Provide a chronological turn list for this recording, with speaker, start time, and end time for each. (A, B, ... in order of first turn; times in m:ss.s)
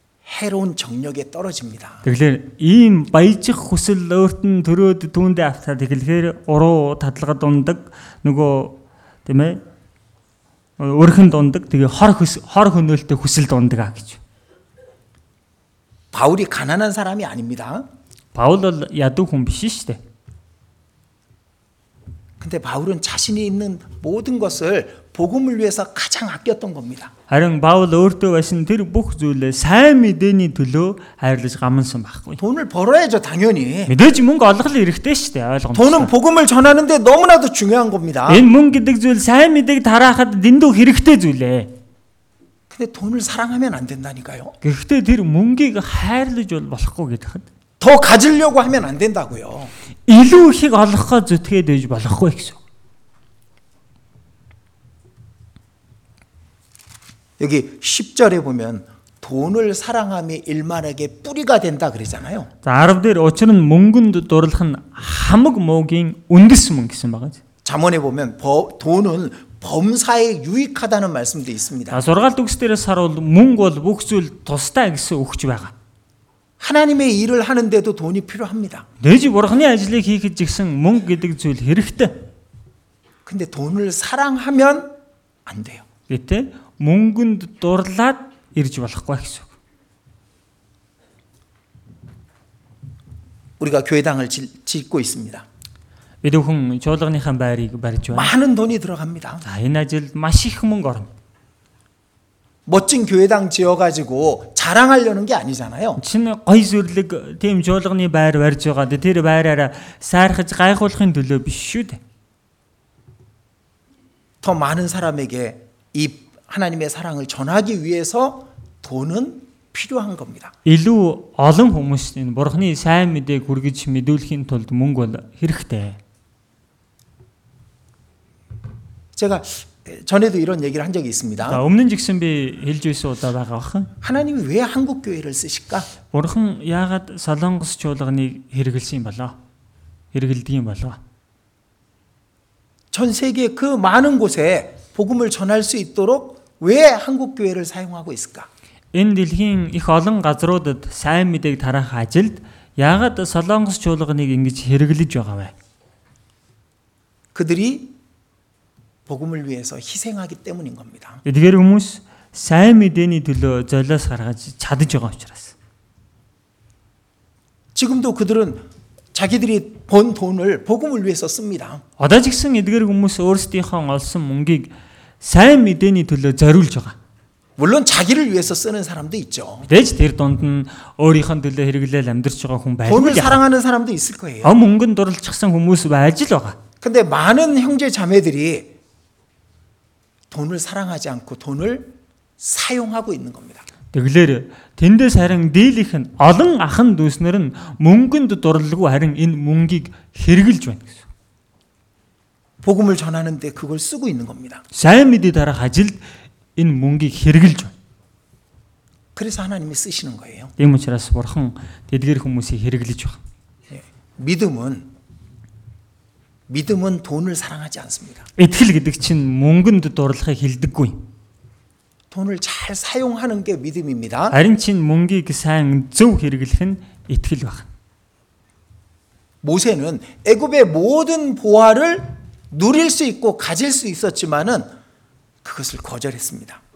0:00.2-0:02.0 A
0:02.0-0:09.6 B
0:10.8-0:14.2 B
0:16.1-0:17.9 A
0:18.3-0:20.0 B
0:22.4-0:27.1 A
0:27.3-0:32.4 B
0:32.4-0:33.9 A
0:33.9-0:36.1 B
0:35.7-0:38.4 A
0:38.3-0:41.7 B
0:42.7-0:44.5 A
0:44.6-0:47.4 B
0:47.8-0:49.7 A
0:50.1-0:52.6 B
0:57.4-1:02.5 A
1:02.6-1:07.4 B
1:07.6-1:12.0 A
1:11.9-1:15.7 B
1:16.6-1:18.8 A
1:19.0-1:22.3 B
1:23.2-1:24.9 A
1:25.4-1:25.8 A
1:26.1-1:29.5 B
1:33.6-1:35.4 A
1:36.2-1:38.3 B
1:38.1-1:39.4 A
1:39.4-1:41.1 B
1:42.6-1:46.0 A
1:46.0-1:52.0 B
1:54.4-2:00.5 A
2:00.6-2:06.0 B
2:09.2-2:11.6 A
2:11.4-2:13.9 B
2:14.0-2:15.9 A
2:16.1-2:19.4 B
2:20.1-2:21.0 B
2:22.9-2:28.5 A
2:28.9-2:35.5 B
2:37.3-2:37.9 A
2:39.1-2:41.2 A
2:41.2-2:45.5 B
2:47.7-2:51.8 A
2:52.0-2:57.0 B
2:57.6-2:59.7 A
2:59.7-3:03.4 B
3:02.8-3:04.5 A
3:04.4-3:06.6 B
3:06.8-3:08.7 A
3:10.3-3:13.6 A
3:13.9-3:21.0 B
3:22.6-3:24.6 A
3:24.7-3:26.0 B
3:26.6-3:27.7 B
3:29.1-3:30.5 A
3:30.6-3:33.2 B
3:33.7-3:34.9 A
3:36.5-3:38.3 A
3:38.4-3:41.0 B
3:42.1-3:44.4 A
3:44.3-3:47.7 B
3:49.4-3:54.7 A
3:55.4-3:56.6 A